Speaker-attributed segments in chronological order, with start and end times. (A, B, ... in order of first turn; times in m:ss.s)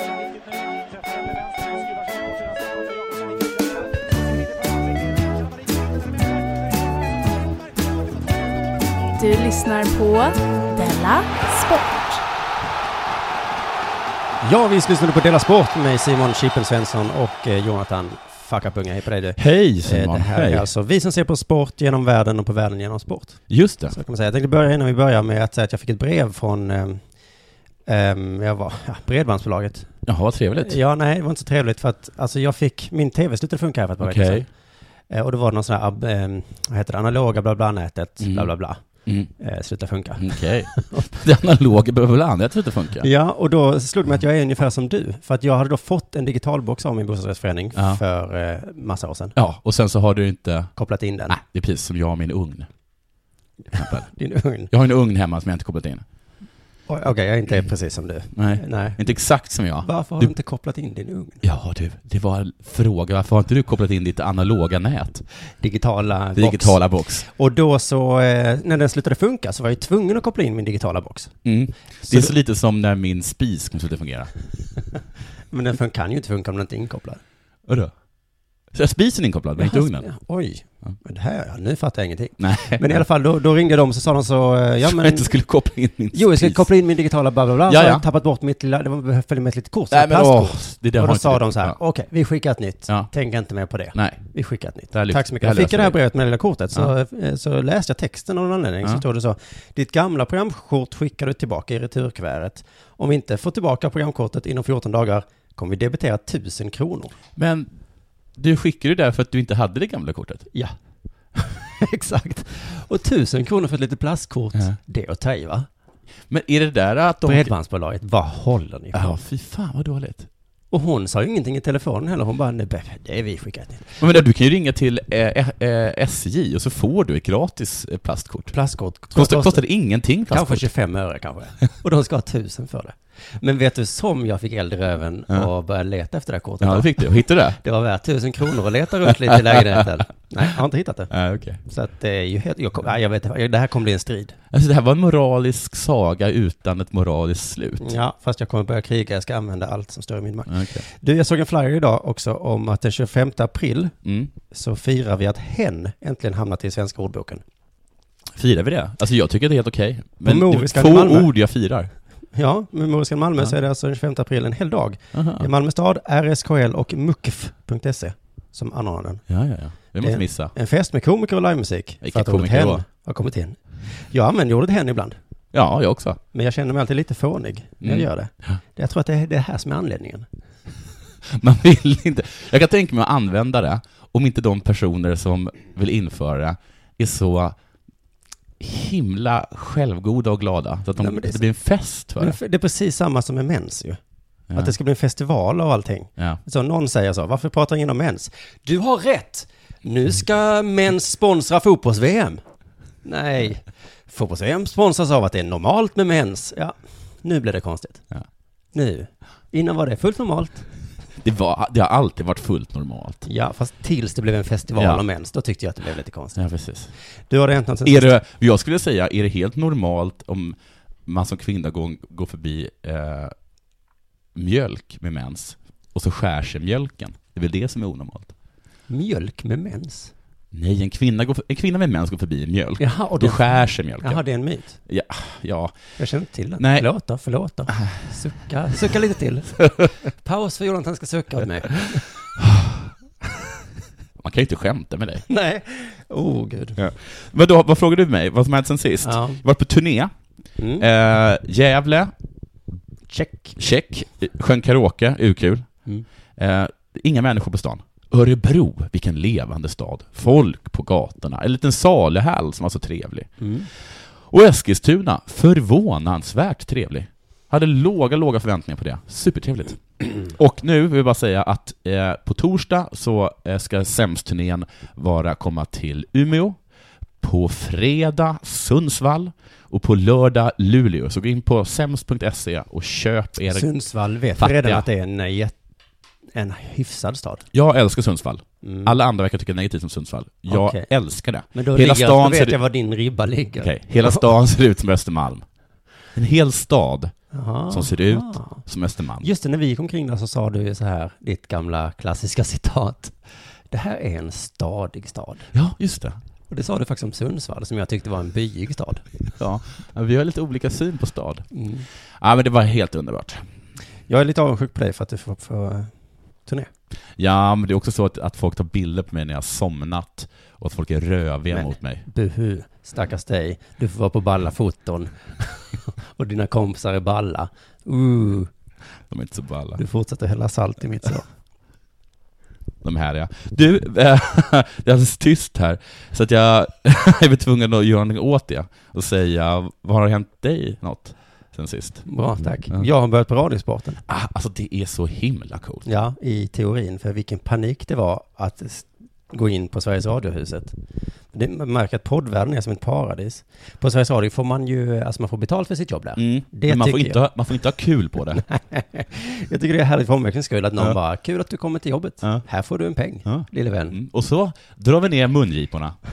0:09.2-0:12.2 A
0:14.4-0:27.0 B
0:19.4-0:20.7 C
0:23.5-0:24.0 C
0:27.9-0:29.9 B
0:30.1-0:30.8 C
0:30.6-0:34.5 B
0:34.0-0:34.5 C
0:35.1-0:38.8 B
0:38.2-0:38.5 C
0:39.0-0:39.3 C
0:39.4-0:41.1 B
0:40.2-0:43.1 C
0:43.0-0:49.4 B
0:47.8-0:48.0 C
0:49.4-0:50.7 C
0:50.8-0:51.4 B
0:51.3-0:52.7 C
0:53.7-0:54.7 B
0:53.7-0:54.1 C
0:54.7-0:56.0 C
0:56.9-0:59.0 B
0:58.4-1:00.3 C
0:59.8-1:01.4 B
1:01.4-1:05.2 C
1:05.6-1:11.4 B
1:06.4-1:07.2 C
1:11.4-1:14.3 C
1:12.0-1:12.3 B
1:15.5-1:17.2 B
1:17.7-1:17.9 C
1:18.7-1:20.1 C
1:19.6-1:25.4 B
1:22.4-1:23.0 C
1:24.8-1:26.7 C
1:26.1-1:47.2 B
1:27.7-1:28.0 C
1:29.9-1:31.8 C
1:33.9-1:34.2 C
1:34.9-1:36.0 C
1:47.4-1:47.8 C
1:48.4-1:50.5 C
1:51.4-1:55.7 B
1:56.3-1:57.5 C
1:57.2-1:59.2 B
1:58.9-2:00.3 C
2:00.7-2:04.0 B
2:04.0-2:08.5 C
2:08.5-2:09.6 B
2:09.2-2:10.7 C
2:10.3-2:24.4 B
2:16.6-2:17.6 C
2:19.3-2:19.8 C
2:21.1-2:21.6 C
2:24.5-2:27.9 C
2:27.8-2:34.0 B
2:30.5-2:30.8 C
2:34.0-2:34.3 C
2:34.5-2:37.4 B
2:38.3-2:41.9 C
2:40.2-2:41.3 B
2:42.3-2:49.2 B
2:45.1-2:45.5 C
2:49.3-2:50.5 C
2:50.0-2:55.2 B
2:52.0-2:52.8 C
2:55.5-2:56.2 C
2:56.3-3:00.3 B
2:57.8-2:58.6 C
3:01.3-3:07.6 C
3:08.6-3:12.4 C
3:11.0-3:11.4 B
3:12.2-3:14.0 B
3:14.5-3:22.4 B
3:23.0-3:28.0 B
3:28.7-3:30.7 B
3:31.2-3:33.2 C
3:33.3-3:36.4 B
3:34.8-3:35.0 C
3:36.4-3:36.9 C
3:37.3-3:38.1 B
3:37.8-3:43.3 C
3:44.4-3:48.3 C
3:48.9-3:50.1 B
3:50.5-3:54.2 C
3:52.8-3:54.8 B
3:54.8-3:55.8 C
3:56.0-4:02.1 B
3:56.6-3:56.9 C
4:02.4-4:02.8 C
4:04.2-4:05.3 C
4:05.3-4:06.8 B
4:06.8-4:10.1 C
4:09.0-4:09.4 B
4:10.6-4:10.9 B
4:10.8-4:12.1 C
4:13.1-4:13.6 B
4:13.6-4:15.7 C
4:16.4-4:23.4 C
4:23.4-4:23.7 B
4:24.3-4:36.6 C
4:37.2-4:43.7 C
4:43.5-4:45.6 B
4:44.4-4:44.8 C
4:46.3-4:47.4 B
4:47.5-4:52.6 C
4:48.6-4:49.0 B
4:50.5-4:50.9 B
4:51.5-4:54.2 B
4:53.6-4:55.4 C
4:56.2-4:57.1 C
4:57.3-4:58.6 B
4:57.7-4:59.3 C
4:59.2-5:03.2 B
5:03.7-5:05.5 B
5:05.5-5:06.2 C
5:06.5-5:09.0 B
5:09.4-5:11.5 C
5:11.5-5:11.9 B
5:12.2-5:13.4 C
5:14.1-5:15.9 B
5:17.2-5:22.0 C
5:21.5-5:28.5 B
5:29.1-5:29.8 C
5:29.8-5:31.3 B
5:32.8-5:42.1 C
5:42.1-5:44.0 B
5:44.1-5:45.9 C
5:45.8-5:50.7 B
5:51.3-5:57.2 B
5:56.2-5:58.4 C
5:58.4-6:04.0 B
6:03.2-6:06.0 C